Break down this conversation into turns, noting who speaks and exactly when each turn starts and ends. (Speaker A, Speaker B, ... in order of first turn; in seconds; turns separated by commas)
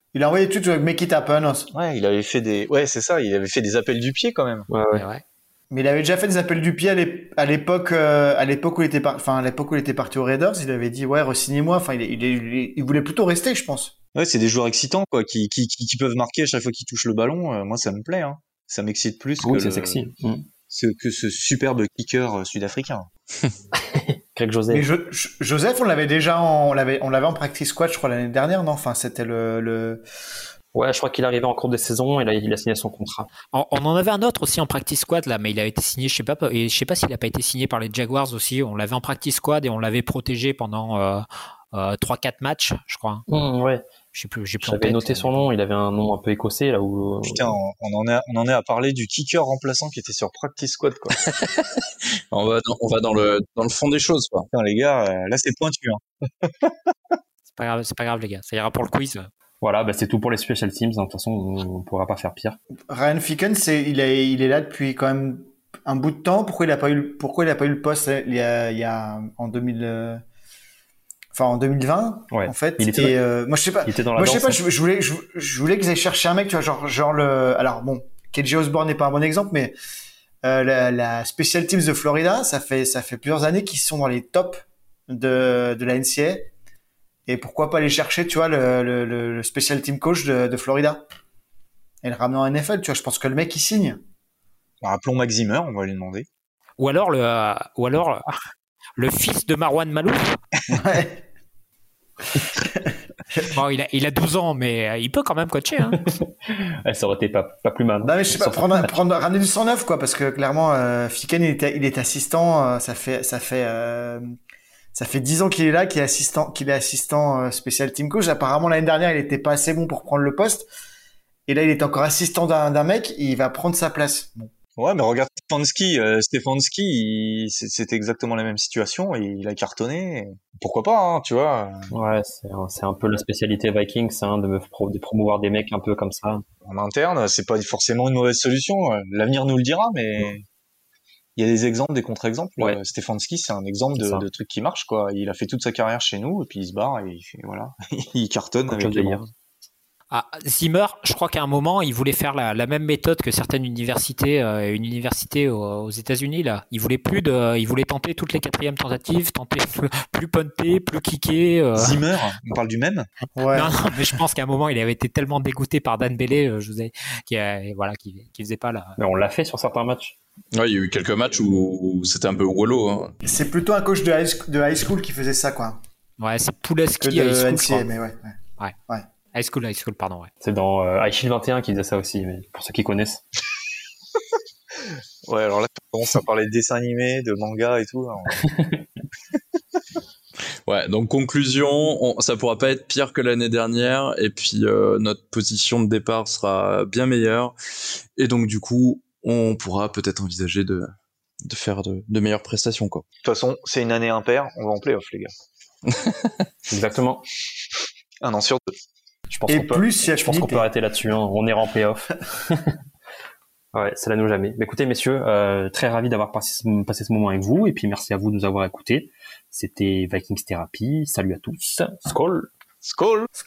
Speaker A: 0.1-1.7, Speaker B: 1.7-4.7, Speaker C: 4.7-5.0, Speaker D: 4.9-5.2, Speaker A: 5.7-13.9, Speaker B: 14.1-20.0, Speaker C: 19.4-20.5, Speaker B: 20.7-23.1, Speaker C: 23.7-24.8, Speaker A: 24.7-30.0, Speaker C: 30.7-33.3, Speaker D: 33.5-43.2, Speaker C: 43.3-43.8, Speaker D: 44.1-45.5, Speaker C: 44.6-47.5, Speaker B: 47.2-51.2, Speaker E: 51.3-51.6, Speaker E: 52.3-54.5, Speaker B: 54.5-57.1, Speaker D: 57.5-59.3, Speaker C: 59.6-62.6, Speaker A: 62.9-70.2, Speaker A: 71.3-79.7, Speaker C: 72.3-73.2, Speaker C: 73.8-74.6, Speaker A: 80.4-86.5, Speaker A: 87.3-91.0, Speaker A: 92.0-94.0, Speaker B: 94.8-96.3, Speaker D: 96.8-98.3, Speaker D: 99.0-100.4, Speaker A: 100.7-101.2, Speaker A: 102.5-103.5, Speaker D: 103.5-106.0, Speaker C: 106.0-108.9, Speaker A: 108.0-114.2, Speaker A: 114.9-120.7, Speaker A: 121.5-124.5, Speaker B: 124.8-131.9, Speaker C: 131.9-136.4, Speaker B: 136.6-140.4, Speaker B: 141.3-149.3, Speaker C: 144.0-144.2, Speaker C: 148.7-149.2, Speaker D: 150.1-162.0, Speaker B: 161.7-163.1, Speaker A: 163.3-163.9, Speaker D: 163.5-169.0, Speaker C: 169.0-170.2, Speaker E: 170.5-173.1, Speaker A: 173.2-175.8, Speaker D: 176.2-177.8, Speaker A: 177.0-178.3, Speaker D: 179.3-180.3, Speaker C: 180.4-183.2, Speaker B: 185.3-188.4, Speaker C: 188.4-188.8, Speaker E: 190.7-197.5, Speaker E: 198.2-200.9, Speaker E: 201.4-203.0, Speaker B: 203.2-205.3, Speaker E: 205.9-206.3, Speaker C: 206.7-207.2, Speaker B: 208.2-208.8, Speaker C: 209.3-212.7, Speaker A: 209.5-210.7, Speaker C: 213.7-222.5, Speaker B: 222.8-223.3